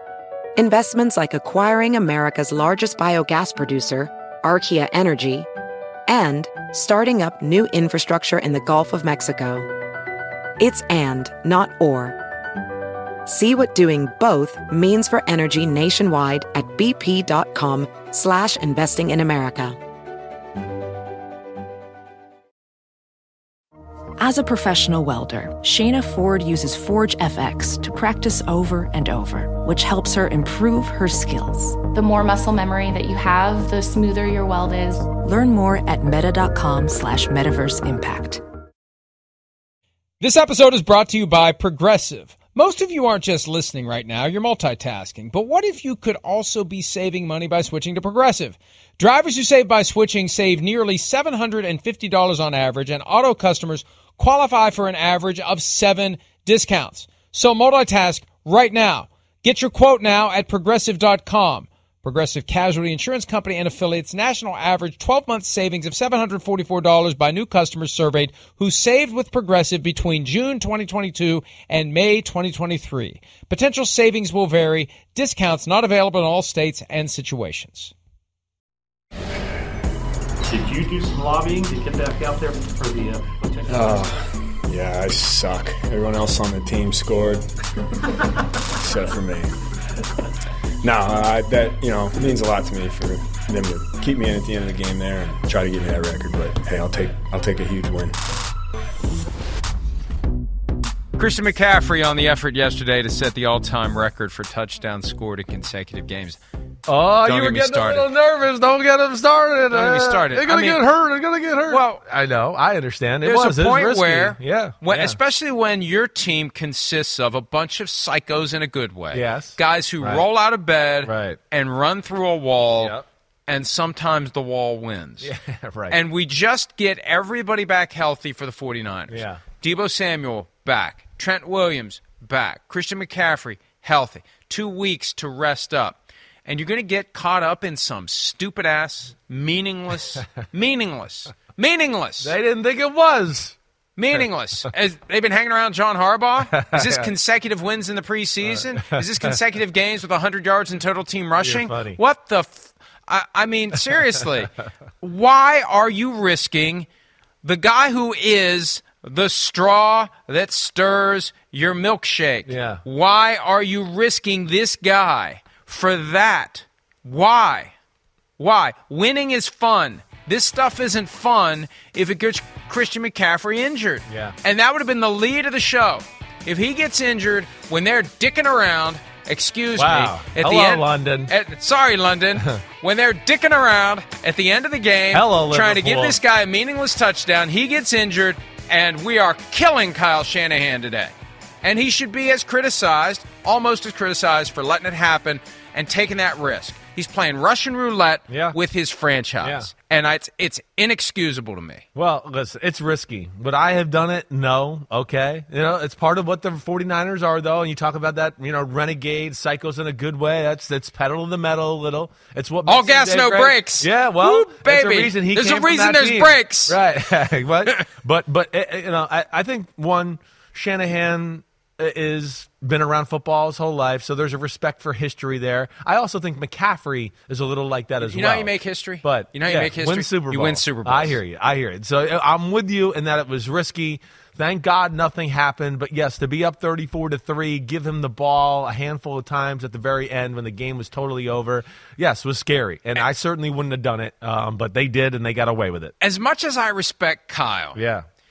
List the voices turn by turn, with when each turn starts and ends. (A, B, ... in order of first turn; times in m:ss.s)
0:00.6-0:05.5 A
0:06.1-0:09.7 A
0:10.6-0:12.2 A
0:13.3-0:19.8 A
0:24.2-0:31.8 B
0:32.0-0:35.1 C
0:35.2-0:38.4 B
0:40.2-1:17.9 D
1:20.4-1:24.0 E
1:23.7-1:27.5 F
1:28.8-1:29.5 F
1:30.8-1:38.2 F
1:41.2-1:46.4 D
1:46.9-1:55.2 G
1:47.2-1:48.1 D
1:49.7-1:50.8 D
1:51.7-1:52.0 D
1:53.2-2:05.3 D
1:59.1-2:00.2 G
2:01.0-2:01.4 G
2:02.8-2:03.0 G
2:05.2-2:06.0 G
2:05.9-2:22.4 D
2:09.1-2:09.4 G
2:22.2-2:23.6 G
2:24.0-2:36.9 D
2:26.5-2:27.1 G
2:28.5-2:29.3 G
2:31.4-2:32.0 G
2:37.4-2:47.7 D
2:42.5-2:42.8 G
2:48.4-3:21.8 D
2:54.1-2:54.4 G
2:59.8-3:01.3 G
3:05.1-3:06.2 G
3:18.3-3:18.6 G
3:19.4-3:19.7 G
3:22.0-4:05.9 G
3:32.7-3:36.8 D
3:48.0-3:51.2 D
4:06.0-4:07.8 D
4:07.8-4:08.1 G